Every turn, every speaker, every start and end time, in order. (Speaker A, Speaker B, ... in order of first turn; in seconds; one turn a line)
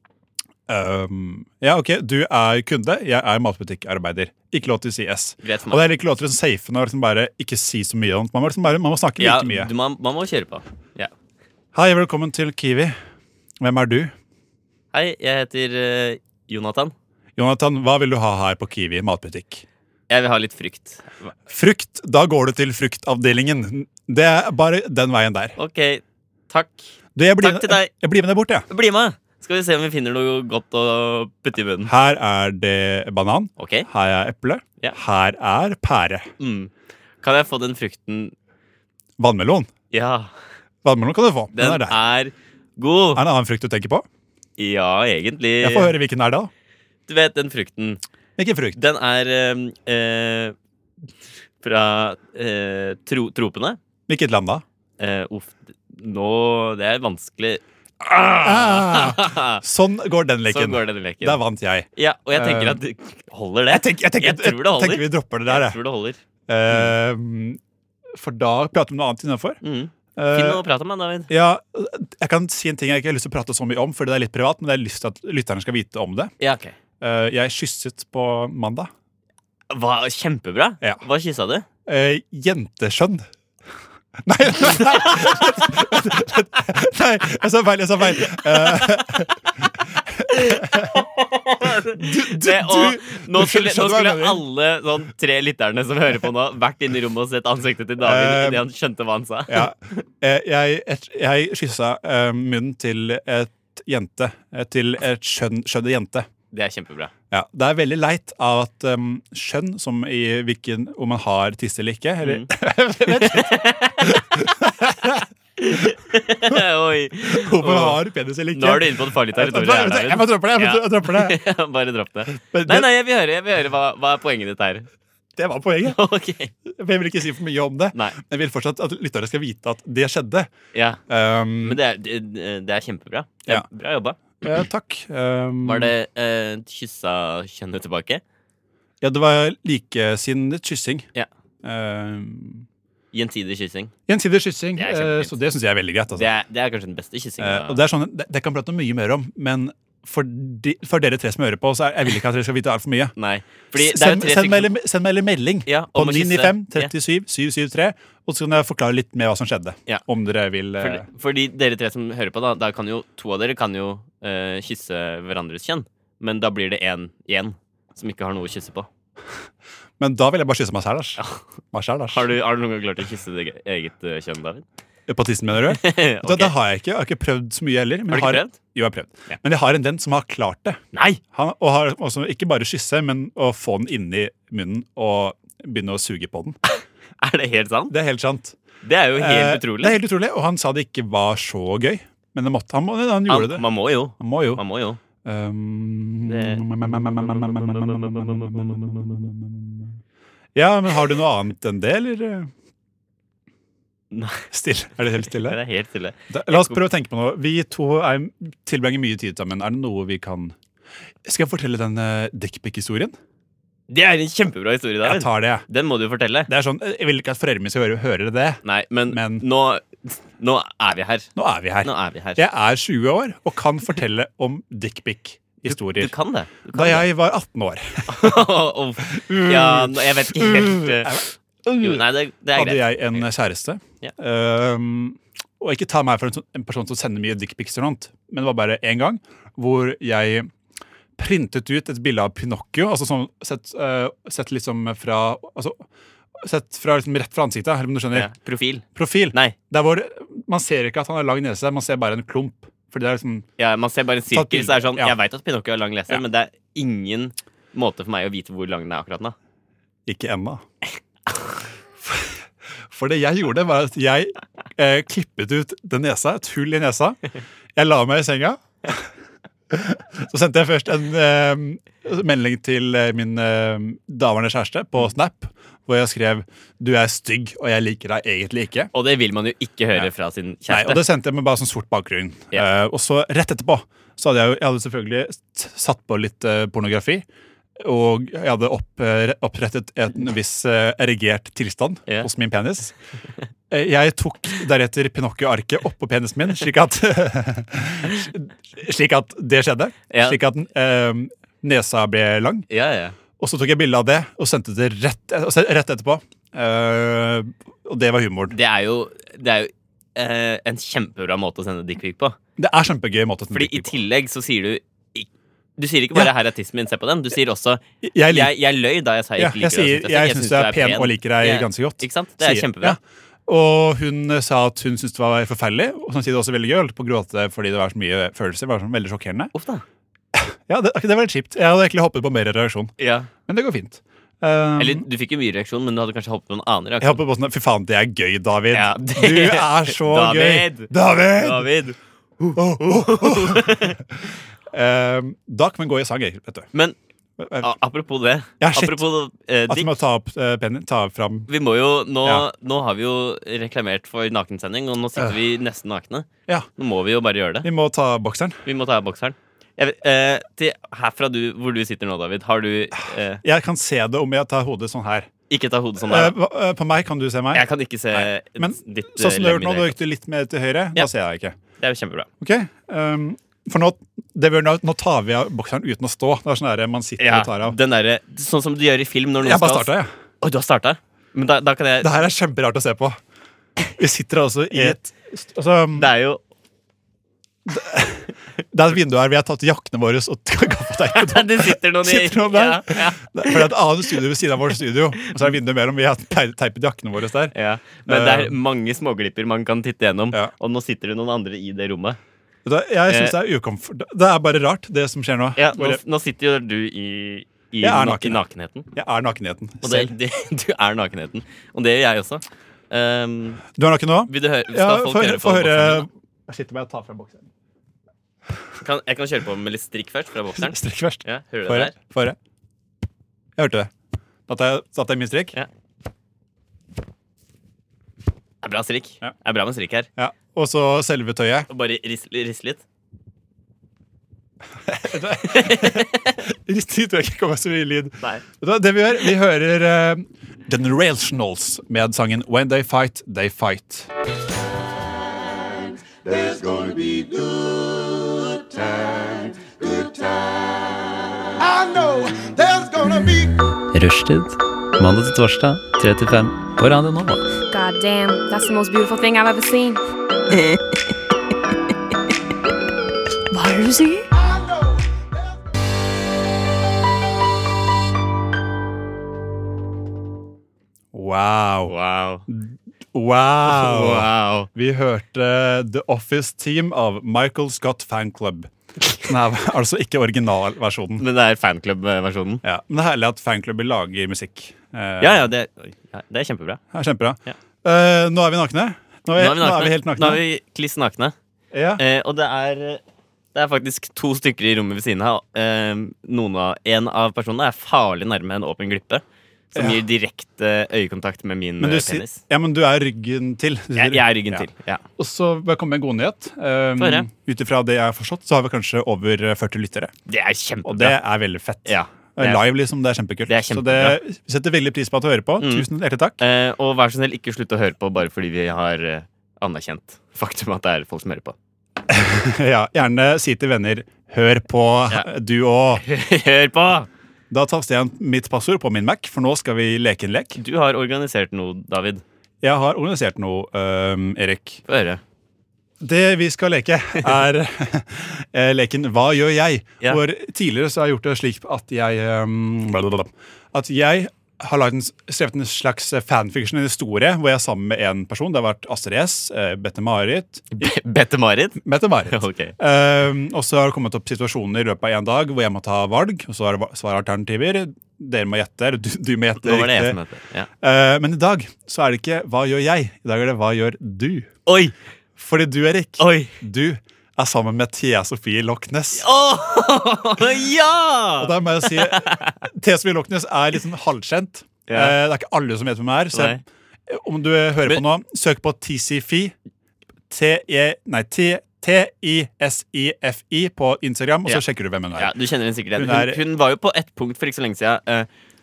Speaker A: 0.7-9.7
Speaker B: 5.4-5.8
Speaker B: 9.2-11.1
Speaker A: 11.7-12.9
Speaker A: 13.6-14.1
Speaker B: 14.9-16.9
Speaker A: 17.4-19.6
Speaker B: 20.1-21.3
Speaker A: 21.5-25.6
Speaker B: 25.6-27.9
Speaker A: 27.1-28.7
Speaker B: 28.7-31.9
Speaker A: 31.8-36.3
Speaker B: 33.6-33.9
Speaker B: 36.4-36.7
Speaker B: 37.2-38.3
Speaker A: 39.2-39.7
Speaker B: 39.9-40.3
Speaker A: 40.8-42.0
Speaker B: 41.5-43.2
Speaker A: 43.1-44.0
Speaker B: 44.6-45.9
Speaker A: 45.6-46.5
Speaker B: 47.1-48.0
Speaker A: 48.4-48.8
Speaker B: 48.7-50.5
Speaker B: 51.6-53.8
Speaker A: 54.1-54.6
Speaker B: 55.0-59.6
Speaker A: 58.4-62.8
Speaker B: 60.5-61.4
Speaker B: 61.9-66.9
Speaker A: 63.7-65.8
Speaker A: 66.5-67.6
Speaker A: 68.1-69.6
Speaker B: 69.6-71.3
Speaker A: 70.2-70.6
Speaker A: 71.3-76.3
Speaker B: 76.4-76.8
Speaker A: 77.0-78.9
Speaker B: 79.7-81.7
Speaker A: 81.8-83.2
Speaker A: 84.2-91.0
Speaker B: 85.0-85.6
Speaker B: 88.2-89.2
Speaker B: 90.3-99.7
Speaker A: 91.9-94.4
Speaker A: 98.0-98.7
Speaker A: 99.5-106.3
Speaker B: 106.5-107.1
Speaker A: 107.3-115.3
Speaker B: 112.2-112.5
Speaker B: 113.0-114.5
Speaker B: 115.6-124.9
Speaker A: 117.2-121.4
Speaker A: 122.3-122.9
Speaker A: 125.3-126.0
Speaker B: 125.8-126.5
Speaker A: 126.7-130.5
Speaker B: 127.9-128.2
Speaker B: 130.7-131.0
Speaker A: 131.1-131.8
Speaker B: 131.6-134.2
Speaker A: 134.4-135.9
Speaker B: 135.6-138.2
Speaker A: 139.0-141.1
Speaker A: 141.6-142.7
Speaker B: 143.1-143.9
Speaker A: 144.1-146.3
Speaker B: 144.8-145.3
Speaker B: 146.1-147.8
Speaker A: 147.4-153.1
Speaker B: 153.2-154.7
Speaker A: 153.7-161.1
Speaker B: 155.7-156.9
Speaker B: 160.8-168.9
Speaker A: 170.0-171.2
Speaker A: 171.7-172.3
Speaker B: 172.1-174.6
Speaker A: 175.1-180.8
Speaker B: 175.7-176.5
Speaker B: 178.1-178.6
Speaker B: 180.9-181.2
Speaker A: 181.3-186.6
Speaker B: 186.7-187.9
Speaker A: 187.9-188.6
Speaker B: 188.8-190.0
Speaker A: 189.2-193.7
Speaker B: 193.3-195.0
Speaker A: 194.2-194.6
Speaker A: 195.2-199.9
Speaker B: 196.2-199.2
Speaker A: 200.5-202.5
Speaker B: 204.1-204.4
Speaker A: 204.5-205.6
Speaker B: 205.2-206.8
Speaker A: 206.3-210.6
Speaker A: 211.2-213.2
Speaker B: 213.9-216.5
Speaker A: 215.0-215.7
Speaker A: 216.5-219.4
Speaker B: 218.6-221.3
Speaker A: 221.3-226.1
Speaker B: 221.8-222.4
Speaker B: 225.7-227.1
Speaker A: 226.7-228.5
Speaker B: 228.1-233.3
Speaker A: 229.0-240.5
Speaker A: 241.2-245.8
Speaker A: 246.4-248.3
Speaker B: 248.1-249.5
Speaker A: 248.9-253.5
Speaker B: 253.6-259.4
Speaker A: 254.3-255.2
Speaker A: 260.1-260.6
Speaker A: 262.0-267.2
Speaker A: 267.7-269.1
Speaker A: 269.7-278.9
Speaker B: 278.9-281.0
Speaker A: 280.7-287.2
Speaker A: 287.8-292.9
Speaker A: 293.7-302.7
Speaker B: 300.1-300.4
Speaker B: 302.7-303.2
Speaker A: 303.4-308.5
Speaker B: 308.5-312.4
Speaker A: 312.6-314.0
Speaker B: 313.5-323.0
Speaker A: 318.0-318.5
Speaker A: 319.4-329.5
Speaker B: 329.5-329.8
Speaker A: 330.3-332.9
Speaker B: 333.0-333.3
Speaker A: 333.4-335.0
Speaker B: 334.8-337.2
Speaker A: 337.0-341.7
Speaker B: 338.7-344.0
Speaker A: 342.5-346.7
Speaker A: 347.4-347.7
Speaker B: 347.6-349.9
Speaker A: 348.6-349.0
Speaker A: 349.7-351.5
Speaker B: 351.5-357.7
Speaker A: 357.6-358.6
Speaker B: 358.6-363.4
Speaker A: 363.4-365.3
Speaker B: 365.5-366.4
Speaker A: 366.0-371.6
Speaker B: 367.5-370.0
Speaker B: 371.8-372.3
Speaker A: 372.4-377.8
Speaker B: 377.2-382.1
Speaker A: 379.4-380.1
Speaker A: 382.0-383.2
Speaker A: 384.0-386.1
Speaker B: 384.7-385.0
Speaker B: 385.9-386.4
Speaker A: 387.6-397.5
Speaker B: 391.1-393.7
Speaker B: 397.5-402.2
Speaker A: 398.1-398.5
Speaker A: 402.6-406.0
Speaker B: 403.1-403.4
Speaker B: 405.6-408.9
Speaker A: 407.8-408.4
Speaker A: 408.9-410.1
Speaker B: 409.8-413.6
Speaker A: 413.8-417.5
Speaker B: 414.3-416.1
Speaker B: 418.8-421.9
Speaker A: 420.6-422.4
Speaker A: 423.6-423.9
Speaker A: 424.5-425.6
Speaker B: 428.6-430.1
Speaker A: 430.2-431.7
Speaker B: 431.7-432.8
Speaker A: 434.9-444.1
Speaker B: 435.4-436.4
Speaker C: 445.7-451.0
Speaker C: 451.6-453.5
Speaker D: 453.7-457.4
Speaker E: 457.7-460.0
Speaker E: 463.5-464.3
Speaker C: 464.3-465.2
Speaker A: 471.1-471.9
Speaker B: 471.9-472.4
Speaker A: 472.5-478.7
Speaker B: 473.6-474.7
Speaker A: 479.2-481.2
Speaker B: 481.2-482.6
Speaker A: 482.6-485.5
Speaker B: 485.2-486.8
Speaker A: 486.9-490.4
Speaker B: 489.4-491.3
Speaker A: 491.7-492.0
Speaker B: 492.0-493.0
Speaker B: 493.5-502.4
Speaker A: 499.7-500.0
Speaker A: 501.8-510.1
Speaker B: 503.9-505.0
Speaker B: 507.0-507.3
Speaker B: 510.3-511.2
Speaker A: 510.8-516.4
Speaker B: 511.8-512.6
Speaker B: 513.5-514.2
Speaker B: 515.6-515.9
Speaker B: 516.4-521.5
Speaker A: 522.1-526.0
Speaker B: 526.0-527.1
Speaker A: 527.5-530.6
Speaker B: 530.5-532.2
Speaker A: 532.6-534.8
Speaker B: 534.9-535.2
Speaker A: 536.0-550.9
Speaker B: 550.7-552.8
Speaker A: 551.8-560.2
Speaker B: 559.6-560.7
Speaker A: 560.8-564.5
Speaker B: 564.6-564.9
Speaker A: 565.4-569.2
Speaker B: 566.2-566.5
Speaker B: 569.1-572.6
Speaker A: 571.4-579.5
Speaker B: 574.9-575.1
Speaker B: 576.3-576.6
Speaker A: 580.3-585.3
Speaker B: 585.1-588.3
Speaker A: 586.0-586.4